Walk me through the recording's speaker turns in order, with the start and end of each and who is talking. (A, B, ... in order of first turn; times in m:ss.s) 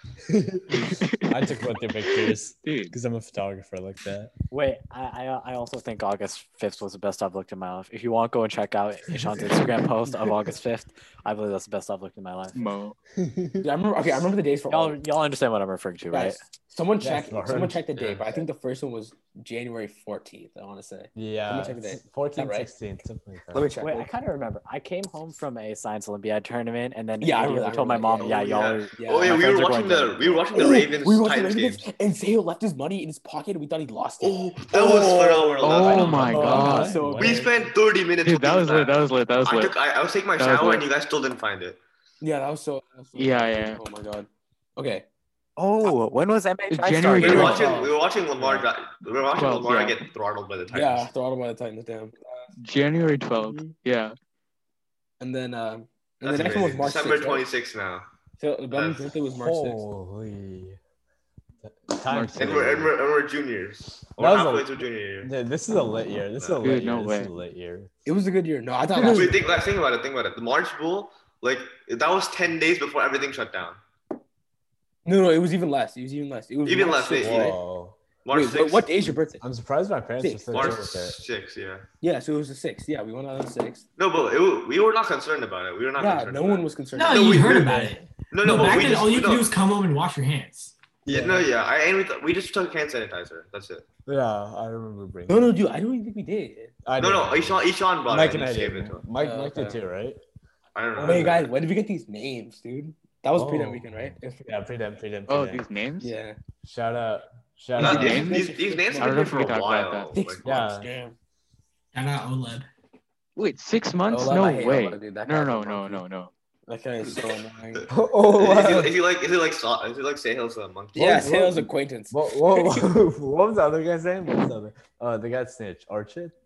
0:00.3-0:04.3 A
0:00.7-0:03.0 B
0:04.5-0:12.6 C
0:09.1-0:09.5 A
0:12.5-0:13.0 B
0:13.2-0:13.6 A
0:13.6-0:15.0 D
0:14.7-0:16.4 C
0:16.1-0:22.7 D
0:17.0-0:17.8 A
0:18.0-0:18.4 E
0:21.2-0:23.7 A
0:23.5-0:24.1 D
0:23.8-0:30.5 C
0:27.2-0:29.4 D
0:28.4-0:31.9 E
0:30.6-0:37.7 D
0:34.2-0:41.8 E
0:35.6-0:37.0 B
0:35.8-0:37.5 A
0:38.2-0:39.8 B
0:40.4-0:40.9 B
0:42.2-0:45.0 D
0:43.2-0:43.8 B
0:45.6-0:47.7 C
0:46.7-0:47.7 B
0:47.2-0:51.1 E
0:47.2-0:48.7 D
0:49.4-0:50.0 B
0:50.7-0:52.5 D
0:52.6-0:54.2 B
0:53.4-0:53.7 D
0:55.2-0:57.4 D
0:56.2-0:58.1 E
0:58.4-0:59.8 D
0:58.7-0:59.1 E
0:59.4-1:00.8 A
1:01.6-1:03.0 A
1:02.1-1:02.6 B
1:02.4-1:05.3 E
1:04.2-1:07.9 A
1:06.6-1:07.3 B
1:08.1-1:09.7 D
1:09.0-1:09.3 A
1:09.0-1:13.8 E
1:15.0-1:17.6 D
1:16.6-1:17.6 E
1:17.2-1:18.0 A
1:18.2-1:18.9 E
1:18.3-1:19.4 D
1:19.4-1:21.2 A
1:20.2-1:20.8 D
1:20.5-1:21.9 E
1:22.0-1:23.9 D
1:24.0-1:29.5 E
1:26.0-1:27.6 D
1:26.9-1:30.8 F
1:28.5-1:28.9 A
1:28.6-1:28.9 D
1:31.1-1:31.5 D
1:31.1-1:33.8 E
1:34.1-1:35.6 A
1:35.3-1:36.8 D
1:36.8-1:40.2 A
1:37.0-1:39.0 E
1:39.2-1:39.8 D
1:40.8-1:41.5 E
1:41.0-1:41.4 A
1:41.0-1:44.5 D
1:43.4-1:45.6 A
1:45.3-1:46.1 B
1:46.0-1:46.4 D
1:46.6-1:48.4 A
1:47.8-1:49.5 D
1:47.8-1:50.6 E
1:47.8-1:50.1 B
1:50.1-1:51.1 D
1:50.4-1:50.9 A
1:51.9-1:52.7 F
1:53.4-1:56.3 B
1:54.1-1:56.0 D
1:56.7-1:57.9 D
1:57.0-2:01.3 E
1:57.9-1:59.0 A
2:01.0-2:03.0 D
2:01.1-2:06.3 A